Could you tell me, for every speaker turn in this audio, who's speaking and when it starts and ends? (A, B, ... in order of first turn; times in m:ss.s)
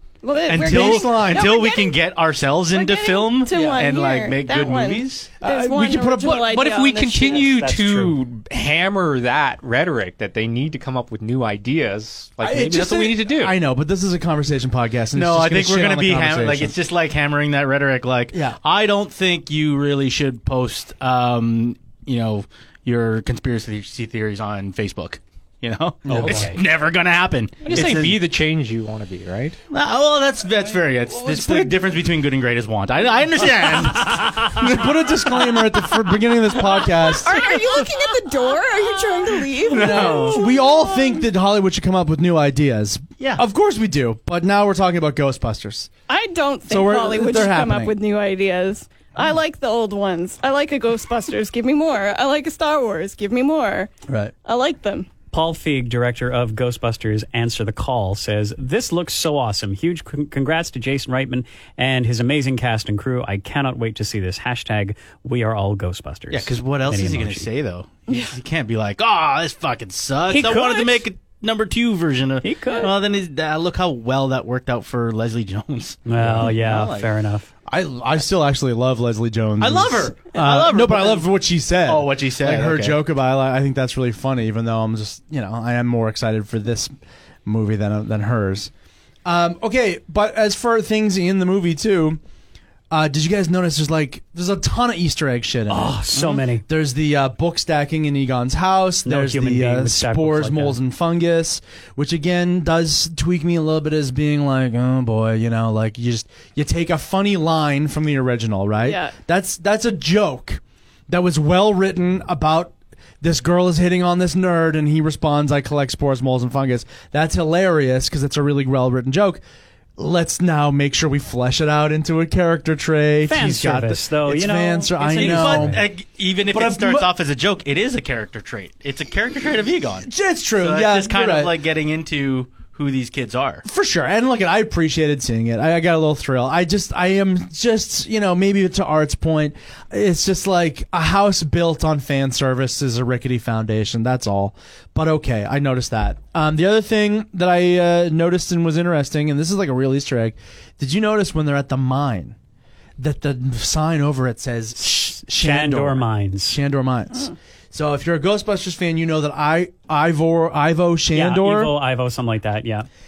0:00.2-0:02.0 A
0:00.4-0:05.3 B
0:00.5-0:01.5 C
0:02.7-0:07.5 A
0:05.4-0:06.5 C
0:06.2-0:13.6 D
0:07.6-0:08.2 E
0:12.4-0:16.8 C
0:15.1-0:28.2 B
0:18.3-0:18.6 C
0:26.1-0:26.4 C
0:26.1-0:26.6 E
0:27.6-0:29.6 D
0:29.7-0:34.7 B
0:31.1-0:31.8 C
0:34.0-0:37.5 C
0:37.1-0:41.2 A
0:39.6-0:40.4 B
0:39.7-0:45.9 C
0:46.1-0:53.9 A
0:46.7-0:48.0 C
0:54.1-0:54.3 C
0:54.4-0:55.1 A
0:55.3-1:07.5 E
1:06.3-1:17.1 B
1:08.1-1:08.3 A
1:10.3-1:11.0 E
1:12.4-1:12.9 E
1:16.1-1:17.5 E
1:17.7-1:26.9 C
1:19.6-1:21.3 B
1:21.8-1:23.0 B
1:27.4-1:28.7 C
1:29.2-1:32.2 C
1:32.9-1:59.4 C
1:35.7-1:36.6 E
1:39.0-1:40.8 E
1:48.8-1:49.2 A
2:00.0-2:05.9 C
2:03.3-2:05.8 E
2:05.1-2:10.1 B
2:06.5-2:07.1 C
2:10.0-2:11.6 C
2:10.6-2:13.6 B
2:13.6-2:32.4 C
2:33.0-2:41.8 C
2:34.8-2:36.6 E
2:41.1-2:42.9 E